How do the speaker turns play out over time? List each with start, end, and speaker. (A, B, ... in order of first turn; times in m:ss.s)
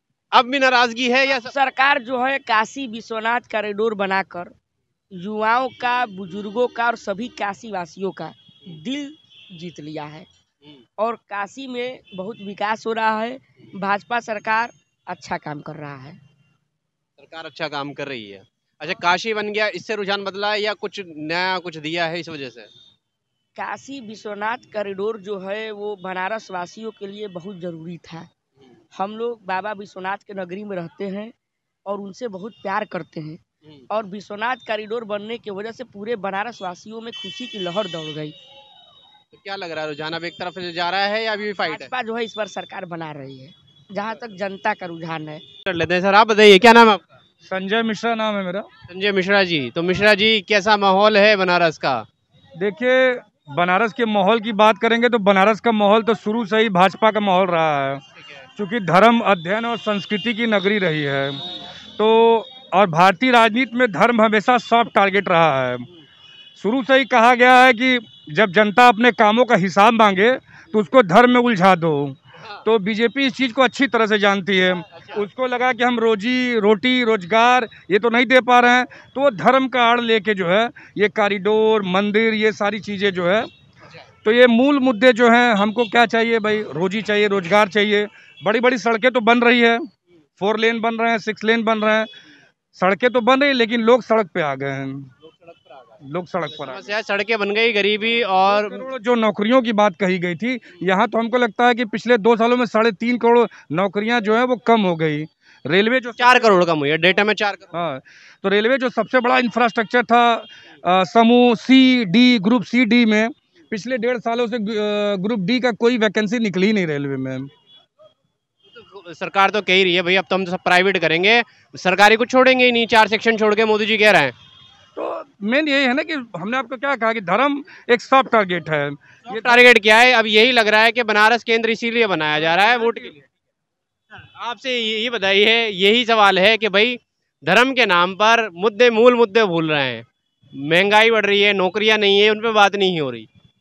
0:00.3-0:01.5 A
0:01.3-0:04.5 B
0:05.1-0:10.3 B
0:11.0-0:16.2 B
0:17.2-0:22.7 A
0:23.6-0:28.3 B
0:28.9-0:31.3 B
0:31.8-0:38.3 B
0:39.3-0:41.9 A
0:41.6-0:45.4 B
0:45.7-0:47.0 A
0:47.4-0:48.7 C
0:48.9-0:52.0 A
0:52.6-0:58.0 C
0:58.6-1:01.4 C
1:02.0-1:05.8 C
1:06.6-1:23.5 C
1:14.9-1:15.2 A
1:24.2-1:29.8 C
1:30.4-1:32.1 C
1:32.7-1:35.1 C
1:36.0-1:36.8 C
1:36.6-1:38.9 A
1:38.5-1:46.6 C
1:46.2-1:47.6 A
1:47.7-1:57.5 C
1:58.7-2:04.3 A
2:05.0-2:09.6 C
2:09.3-2:13.2 A
2:14.4-2:20.0 A
2:20.6-2:23.3 A